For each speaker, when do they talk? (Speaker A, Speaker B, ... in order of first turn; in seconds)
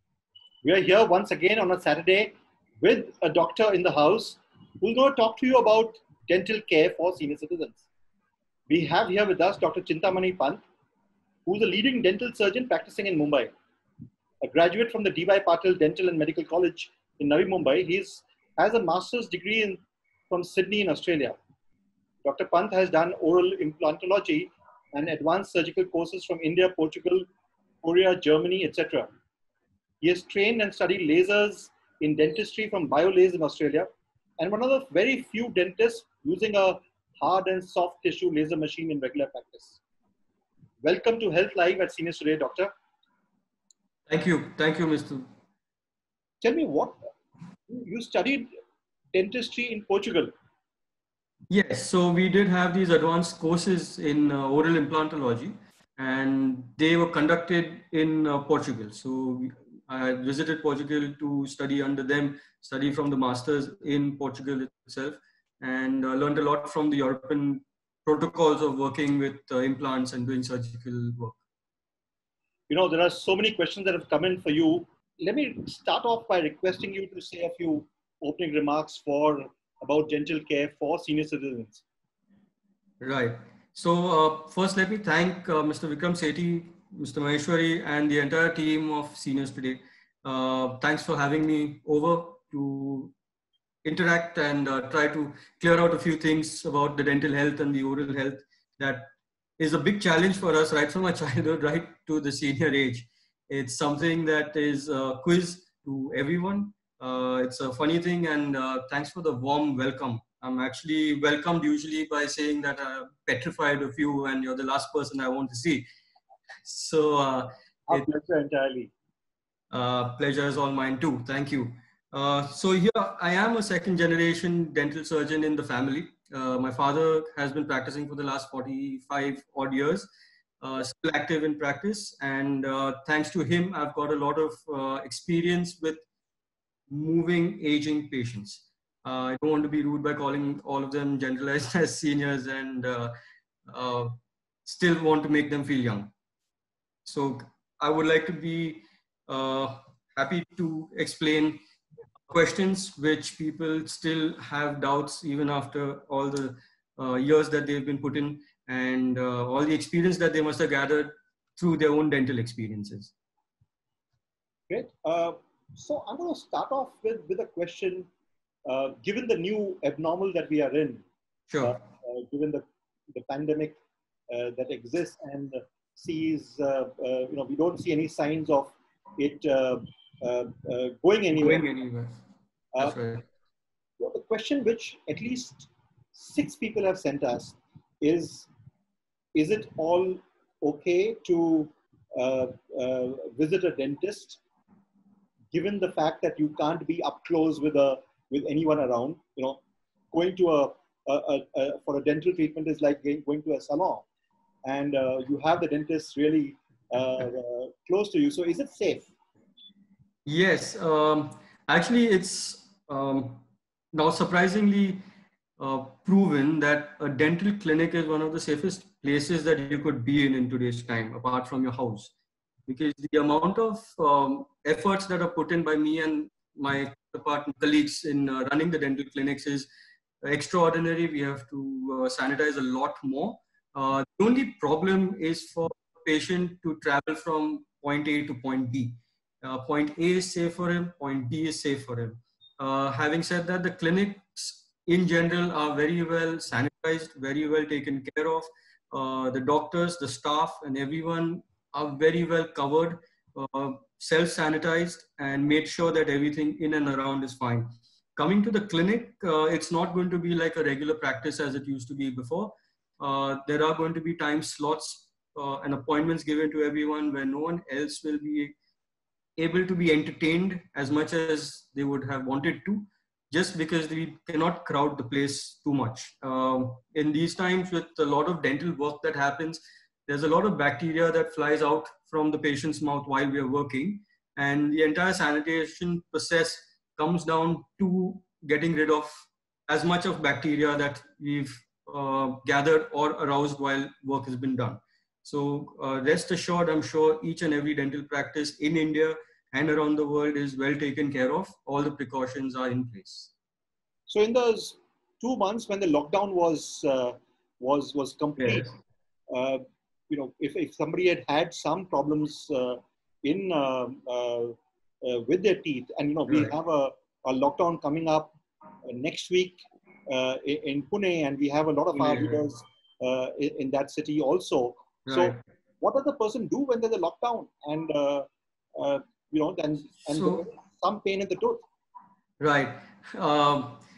Speaker A: 0.6-7.8, 8.7-10.6, 11.5-13.5, 14.4-21.4, 22.2-27.3, 27.8-29.1, 30.0-39.8, 40.8-42.7, 46.4-47.0, 47.7-48.5, 49.1-50.3, 72.7-81.8, 117.9-118.9, 164.7-168.1, 168.7-171.1, 171.6-173.8, 174.3-181.6, 184.0-188.5, 189.3-194.4, 195.5-199.6, 200.1-204.1, 204.7-209.1, 304.1-308.7, 309.3-331.7
Speaker B: 44.1-45.3, 51.5-71.4, 83.0-93.1, 93.8-115.9, 116.6-118.1, 119.7-130.1, 130.6-136.1, 136.9-143.1, 143.7-146.1, 147.1-151.6, 152.3-163.1, 171.5-171.8, 181.3-182.1, 182.8-183.2, 210.3-215.0, 215.6-222.1, 222.7-229.7, 230.2-268.6, 269.4-303.3, 308.4-308.7, 316.3-316.6, 321.9-322.4, 325.1-325.4, 330.1-330.5, 332.4-333.8